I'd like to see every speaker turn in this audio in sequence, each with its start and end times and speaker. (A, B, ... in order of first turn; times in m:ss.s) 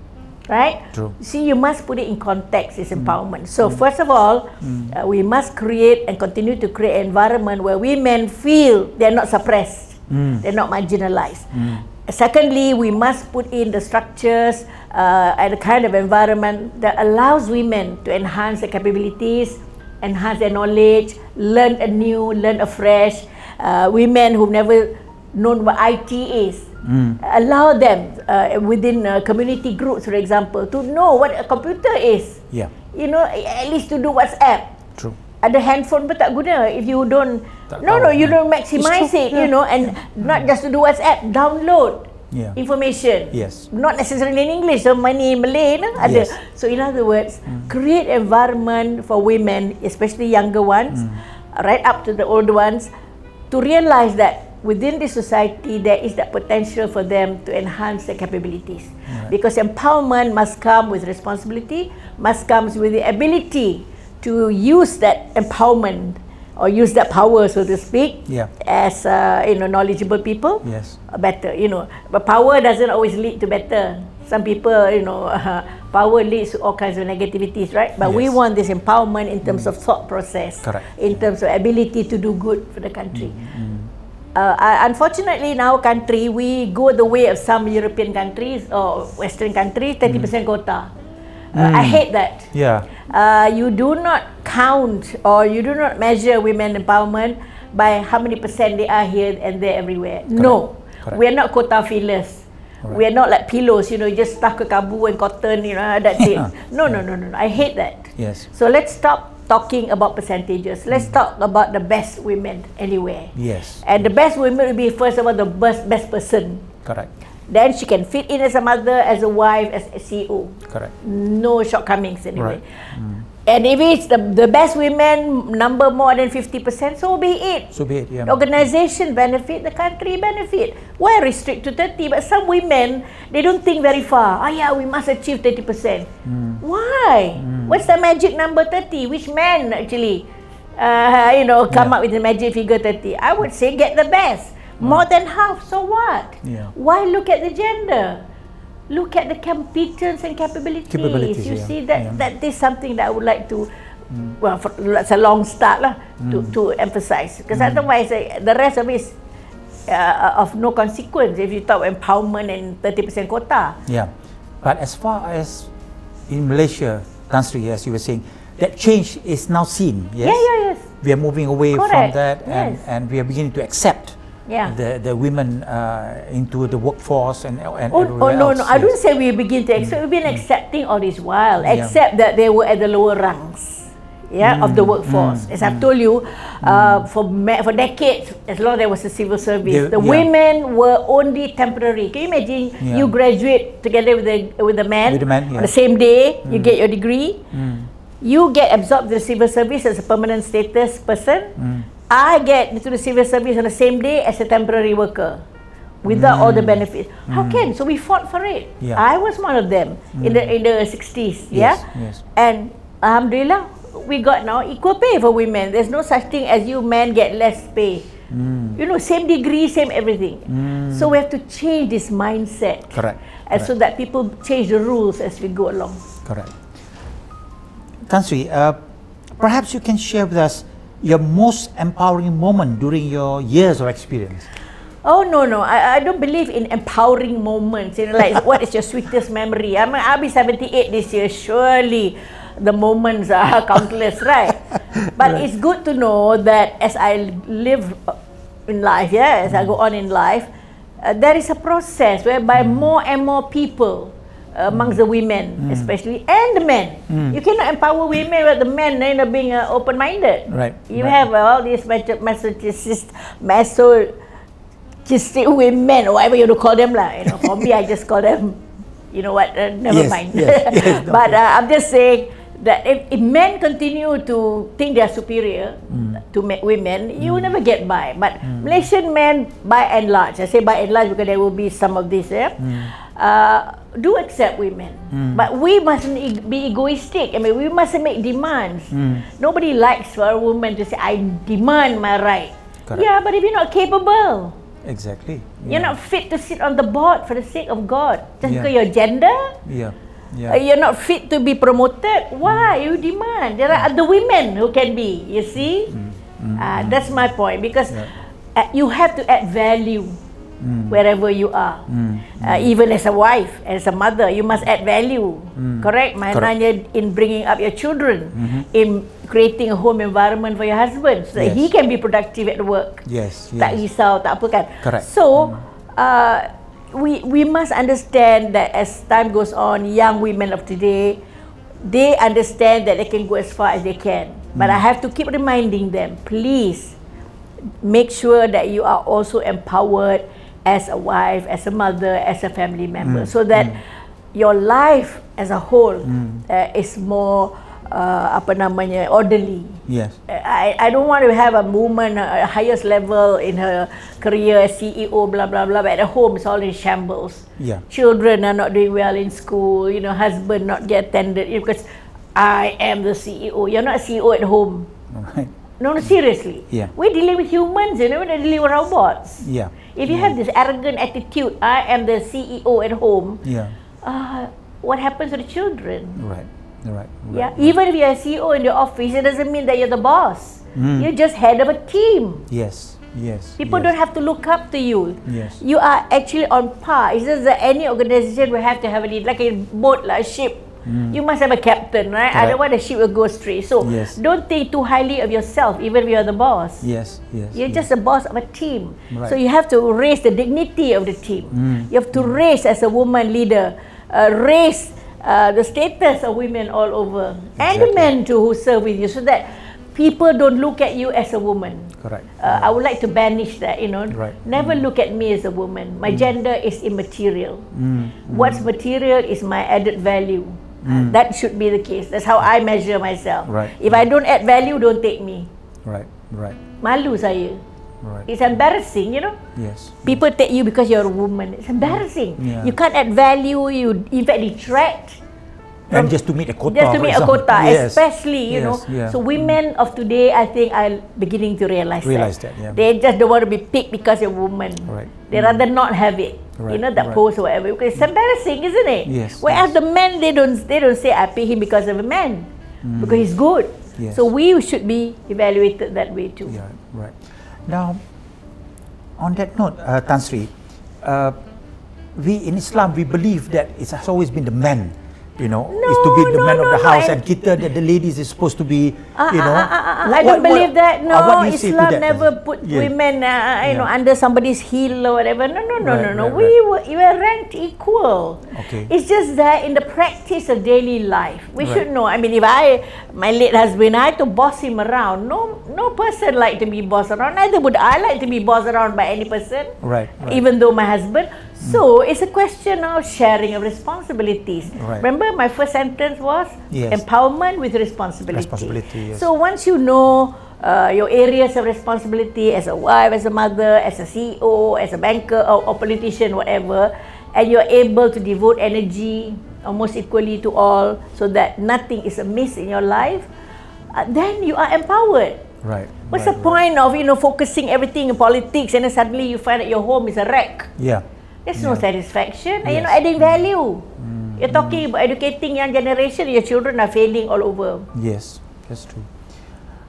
0:00.5-0:34.8 A
0:02.9-0:03.8 B
0:04.6-0:04.9 B
0:10.1-0:10.4 B
0:11.5-0:11.8 B
0:26.8-0:27.2 B
0:35.4-0:52.9 A
0:37.7-0:39.5 B
0:42.3-0:42.6 B
0:43.3-0:43.7 B
0:46.0-0:46.3 B
0:50.9-0:51.2 B
0:53.5-1:23.3 A
1:10.6-1:11.0 B
1:18.0-1:18.4 B
1:20.6-1:21.2 B
1:23.1-1:23.9 B
1:24.3-1:30.9 A
1:30.0-1:30.3 B
1:31.5-1:56.7 A
1:31.5-1:32.9 B
1:40.3-1:41.2 B
1:46.2-1:46.5 B
1:48.2-1:48.5 B
1:53.3-1:54.0 B
1:56.8-1:57.1 B
1:57.5-2:02.6 A
2:00.7-2:00.9 B
2:02.4-2:03.3 B
2:03.4-2:07.7 A
2:07.7-2:08.4 B
2:08.2-2:16.1 A
2:16.2-2:16.6 B
2:16.6-2:28.2 A
2:17.4-2:17.9 B
2:21.7-2:22.0 B
2:26.4-2:26.7 B
2:28.9-2:33.7 A
2:30.9-2:32.2 B
2:34.1-2:34.4 B
2:34.4-2:39.1 A
2:36.2-2:36.5 B
2:37.5-2:37.9 B
2:39.9-2:43.8 A
2:43.8-2:45.7 B
2:46.3-2:50.5 B
2:50.2-2:50.9 A
2:51.0-2:58.9 B
2:51.7-2:52.8 A
2:54.5-2:54.7 A
2:57.9-3:17.4 A
2:59.8-3:00.4 B
3:01.6-3:02.0 B
3:04.4-3:05.9 B
3:06.6-3:07.1 B
3:09.6-3:10.3 B
3:12.8-3:13.1 B
3:15.1-3:15.7 B
3:16.4-3:16.7 B
3:17.5-3:17.9 B
3:18.2-3:21.6 A
3:21.6-3:21.9 B
3:22.1-3:25.4 A
3:26.0-3:38.1 A
3:26.1-3:27.7 B
3:30.1-3:30.5 B
3:31.5-3:32.2 B
3:38.3-3:38.8 B
3:38.8-3:46.0 A
3:40.5-3:41.2 B
3:42.9-3:43.7 B
3:46.2-3:46.5 B
3:48.1-3:48.8 B
3:49.4-3:54.5 B
3:55.0-4:08.2 A
4:05.1-4:05.4 B
4:08.7-4:10.5 A
4:09.5-4:09.7 B
4:11.0-4:24.1 A
4:12.5-4:12.9 B
4:14.7-4:15.0 B
4:15.6-4:15.9 B
4:17.1-4:17.4 B
4:20.5-4:21.2 B
4:25.0-4:28.6 A
4:27.3-4:27.7 B
4:29.1-4:54.5 A
4:29.9-4:31.4 B
4:35.9-4:36.2 B
4:37.2-4:37.5 B
4:38.4-4:38.9 B
4:42.6-4:42.9 B
4:45.1-4:45.5 B
4:48.9-4:49.2 B
4:54.8-4:56.0 B
4:55.6-4:59.5 A
4:58.4-4:58.7 B
4:59.6-5:00.6 B
5:00.5-5:06.0 A
5:02.4-5:02.7 B
5:05.9-5:07.2 B
5:06.6-5:10.2 A
5:10.6-5:11.0 B
5:10.9-5:31.2 A
5:11.9-5:12.7 B
5:15.6-5:16.5 B
5:18.3-5:18.6 B
5:21.4-5:21.7 B
5:23.0-5:23.8 B
5:24.8-5:25.6 B
5:31.8-5:37.0 A
5:34.5-5:34.8 B
5:37.8-5:43.8 A
5:43.0-5:43.8 B
5:44.3-6:04.9 A
5:46.0-5:46.4 B
5:49.9-5:50.2 B
5:57.6-5:57.8 B
6:05.1-6:06.1 B
6:05.8-6:13.4 A
6:09.4-6:10.3 B
6:13.4-6:13.7 B
6:14.0-6:16.2 A
6:16.2-6:17.7 B
6:17.3-6:22.5 A
6:20.7-6:21.1 B
6:22.5-6:23.9 B
6:23.6-6:36.8 A
6:25.2-6:25.6 B
6:30.8-6:31.2 B
6:32.3-6:32.6 B
6:33.8-6:34.2 B
6:36.8-6:37.8 B
6:37.5-6:57.7 A
6:39.1-6:39.4 B
6:41.5-6:42.3 B
6:47.6-6:48.1 B
6:52.0-6:52.7 B
6:54.1-6:54.8 B
6:57.7-6:58.7 B
6:58.3-7:05.5 A
7:00.8-7:01.2 B
7:03.4-7:04.0 B
7:05.8-7:06.6 B
7:06.8-7:07.6 A
7:08.0-7:08.3 B
7:08.3-7:09.4 A
7:09.6-7:10.2 B
7:10.0-7:15.2 A
7:11.8-7:12.7 B
7:15.9-7:19.6 B
7:16.7-7:36.6 A
7:22.0-7:22.8 B
7:24.8-7:25.6 B
7:26.6-7:27.2 B
7:29.0-7:29.7 B
7:32.8-7:33.2 B
7:34.0-7:34.2 B
7:36.5-7:38.0 B
7:39.2-7:41.4 B
7:42.1-7:52.9 B
7:45.7-7:47.2 A
7:49.1-8:33.3 A
7:53.6-7:53.9 B
7:55.8-7:56.5 B
7:58.5-7:58.9 B
8:09.8-8:10.4 B
8:14.7-8:15.0 B
8:16.7-8:17.0 B
8:18.3-8:19.3 B
8:33.9-8:35.5 A
8:35.6-8:36.6 B
8:36.1-8:40.7 A
8:40.8-8:41.8 B
8:41.4-8:47.9 A
8:42.6-8:43.4 B
8:44.0-8:44.8 B
8:47.9-8:49.1 B